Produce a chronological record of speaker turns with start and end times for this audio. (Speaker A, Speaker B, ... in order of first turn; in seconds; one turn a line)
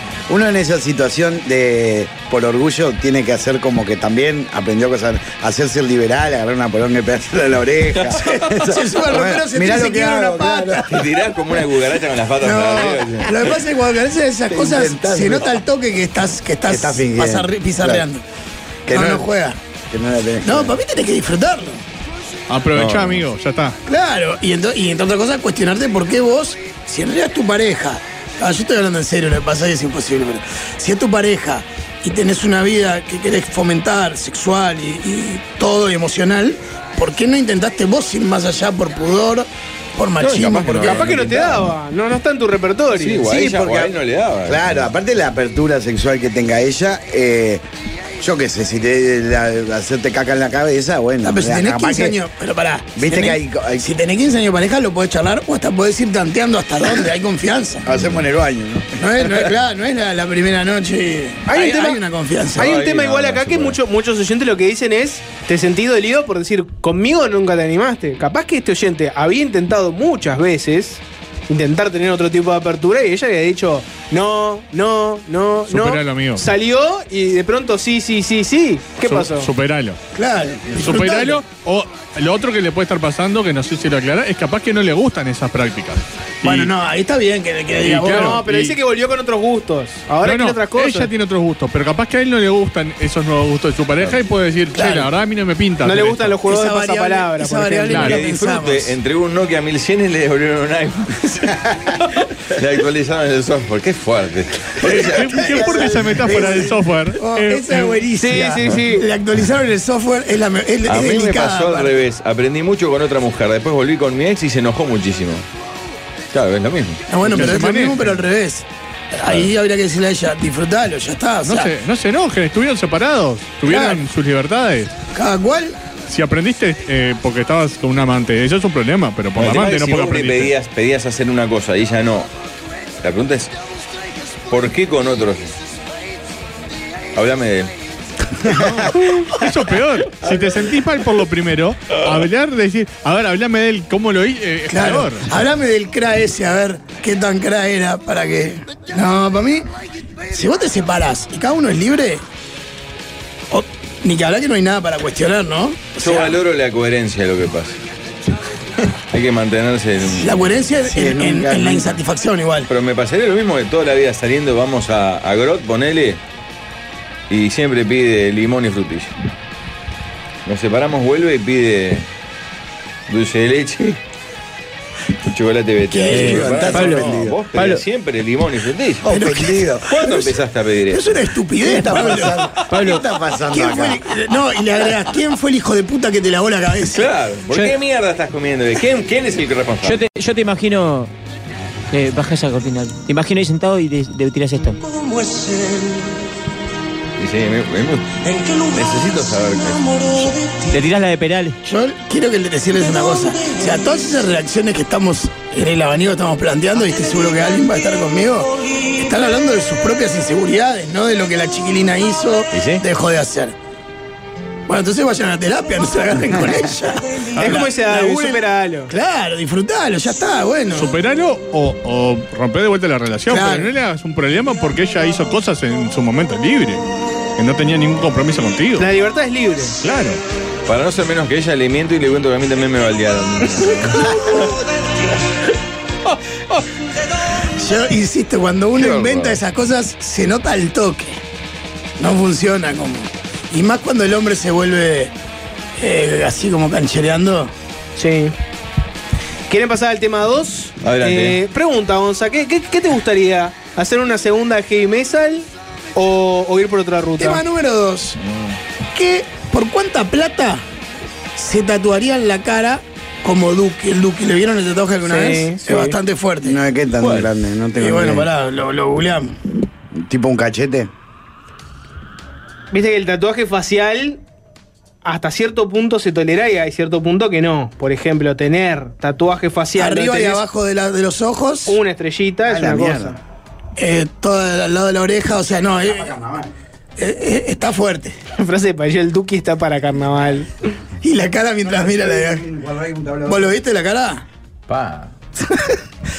Speaker A: 0.3-10.9
Speaker B: 8.1-10.9
Speaker C: 10.9-13.6
Speaker B: 12.4-18.2
Speaker A: 14.5-15.6
Speaker A: 16.7-18.1
Speaker A: 18.9-19.3
Speaker B: 18.9-19.6
Speaker A: 19.9-20.8
Speaker B: 20.4-21.8
Speaker D: 22.5-23.8
Speaker C: 22.7-23.2
Speaker B: 23.9-41.0
Speaker C: 40.2-41.8
Speaker E: 40.8-43.2
Speaker C: 42.9-44.9
Speaker A: 43.2-47.6
Speaker A: 48.2-52.2
Speaker B: 51.2-57.9
Speaker A: 53.0-53.9
Speaker A: 57.9-59.3
Speaker B: 59.0-62.7
Speaker E: 61.5-62.0
Speaker E: 62.6-79.5
Speaker C: 62.6-63.8
Speaker D: 75.7-76.5
Speaker D: 79.0-80.0
Speaker B: 80.1-81.4
Speaker D: 80.8-86.7
Speaker B: 86.4-88.4
Speaker D: 87.8-88.8
Speaker E: 88.1-91.1
Speaker D: 90.2-96.4
Speaker B: 94.7-95.1
Speaker E: 95.8-98.2
Speaker B: 96.5-98.9
Speaker D: 97.9-98.2
Speaker C: 98.0-101.5
Speaker C: 102.5-105.6
Speaker D: 104.8-108.0
Speaker A: 104.9-106.8
Speaker B: 106.4-111.9
Speaker E: 108.1-109.1
Speaker C: 110.8-115.5
Speaker C: 116.3-117.0
Speaker B: 117.1-121.7
Speaker D: 117.2-118.2
Speaker D: 121.5-124.9
Speaker B: 123.7-124.0
Speaker B: 125.1-125.8
Speaker D: 126.1-130.5
Speaker C: 129.4-132.3
Speaker C: 133.0-133.5
Speaker C: 134.5-135.5
Speaker C: 137.2-137.7
Speaker D: 138.5-145.3
Speaker B: 144.7-149.7
Speaker B: 150.3-152.2
Speaker B: 153.5-156.2
Speaker C: 156.0-157.8
Speaker C: 159.1-160.5
Speaker B: 160.1-162.7
Speaker A: 160.8-162.0
Speaker C: 162.7-166.2
Speaker C: 167.3-169.1
Speaker C: 170.5-172.1
Speaker C: 173.1-174.0
Speaker C: 175.3-179.2
Speaker A: 176.0-177.4
Speaker F: 176.1-177.8
Speaker A: 179.0-180.2
Speaker B: 179.1-180.1
Speaker C: 179.9-181.2
Speaker B: 180.9-182.4
Speaker A: 181.6-184.0
Speaker F: 182.7-183.0
Speaker B: 183.5-187.1
Speaker C: 186.9-190.0
Speaker F: 189.8-191.1
Speaker F: 191.9-194.8
Speaker C: 197.2-200.3
Speaker F: 200.7-201.6
Speaker B: 201.6-213.6
Speaker C: 212.5-212.8
Speaker B: 214.7-220.9
Speaker E: 217.4-218.9
Speaker D: 220.7-226.8
Speaker B: 223.3-223.7
Speaker D: 227.4-228.9
Speaker E: 228.8-229.8
Speaker D: 229.8-230.2
Speaker C: 230.7-234.2
Speaker B: 237.5-241.2
Speaker C: 239.0-239.3
Speaker B: 242.0-245.1
Speaker B: 245.8-247.5
Speaker E: 248.0-248.3
Speaker E: 249.5-257.4
Speaker C: 250.8-251.4
Speaker B: 257.2-258.2
Speaker C: 258.2-258.6
Speaker B: 258.9-260.6
Speaker B: 261.4-266.6
Speaker E: 265.1-266.0
Speaker A: 266.4-268.3
Speaker C: 267.0-267.3
Speaker B: 267.8-269.4
Speaker A: 269.9-270.9
Speaker E: 272.7-274.2
Speaker E: 275.0-280.4
Speaker B: 279.8-281.8
Speaker E: 281.7-283.2
Speaker A: 282.5-283.2
Speaker B: 283.8-286.1
Speaker A: 285.8-286.5
Speaker B: 287.0-288.2
Speaker E: 288.4-290.5
Speaker B: 291.0-292.4
Speaker A: 291.6-293.6
Speaker B: 293.3-294.2
Speaker C: 294.7-295.1
Speaker B: 295.4-295.8